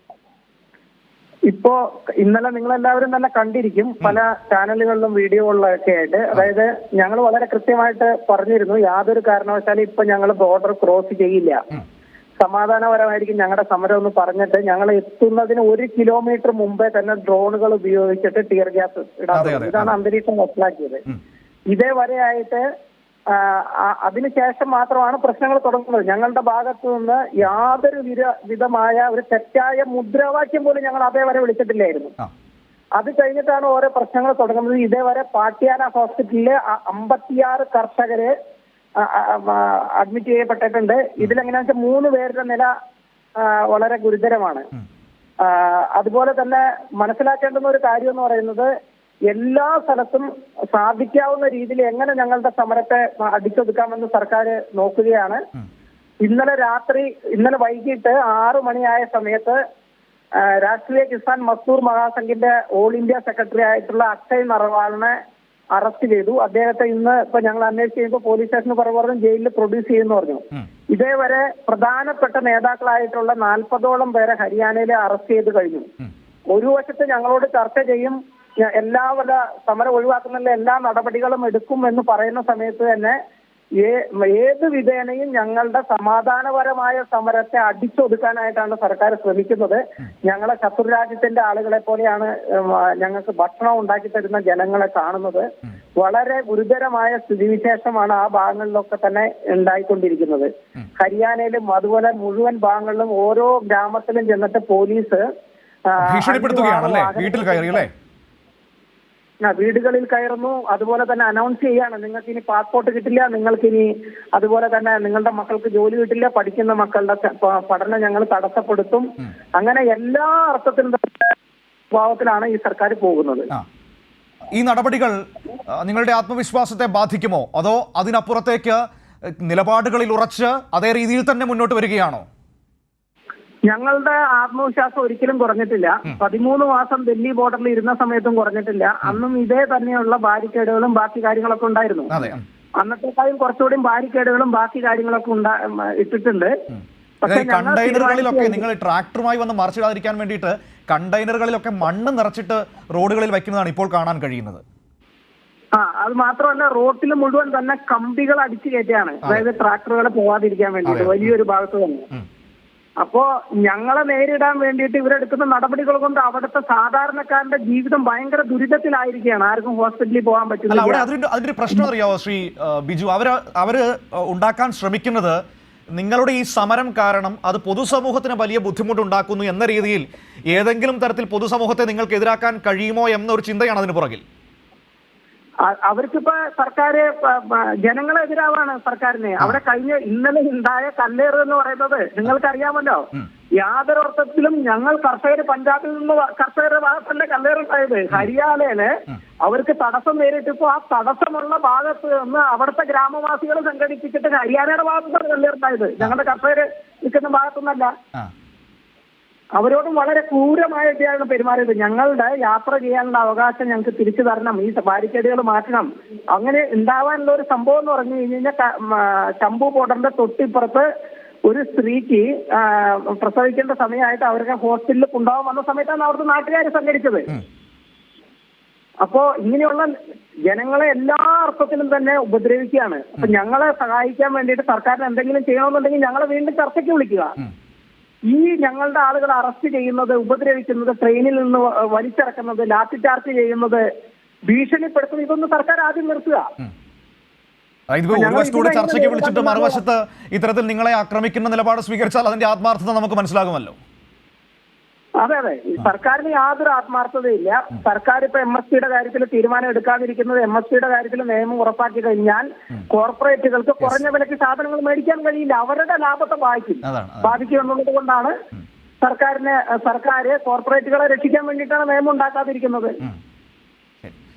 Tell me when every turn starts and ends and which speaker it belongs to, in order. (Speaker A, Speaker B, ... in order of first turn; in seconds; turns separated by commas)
Speaker A: 1.5-11.6, Speaker A: 12.4-21.1, Speaker B: 19.3-19.9, Speaker A: 21.7-22.6, Speaker A: 23.3-32.1, Speaker A: 33.0-38.3, Speaker A: 39.0-42.7, Speaker A: 43.4-44.7, Speaker A: 45.4-48.7, Speaker A: 49.3-55.4, Speaker A: 56.2-59.6, Speaker A: 60.4-65.2, Speaker A: 65.8-75.9, Speaker A: 76.5-83.2, Speaker A: 83.8-95.5, Speaker A: 96.0-105.2, Speaker A: 105.9-107.8, Speaker B: 106.0-107.9, Speaker A: 109.4-121.2, Speaker A: 121.9-123.5, Speaker B: 124.5-125.2, Speaker B: 125.7-132.2, Speaker A: 133.7-142.1, Speaker B: 142.1-142.4, Speaker A: 142.8-146.5, Speaker A: 147.2-148.6, Speaker B: 147.3-154.6, Speaker A: 155.8-162.1, Speaker B: 160.9-161.2, Speaker A: 163.0-171.1, Speaker B: 170.7-175.4, Speaker B: 175.9-184.2, Speaker A: 185.7-207.9, Speaker A: 209.6-220.9, Speaker A: 221.4-227.3, Speaker A: 229.0-229.9, Speaker A: 230.5-237.4, Speaker A: 238.3-243.9, Speaker A: 244.5-246.5, Speaker B: 247.9-253.8, Speaker A: 248.1-249.8, Speaker A: 255.2-268.4, Speaker B: 266.8-267.4, Speaker A: 269.0-273.0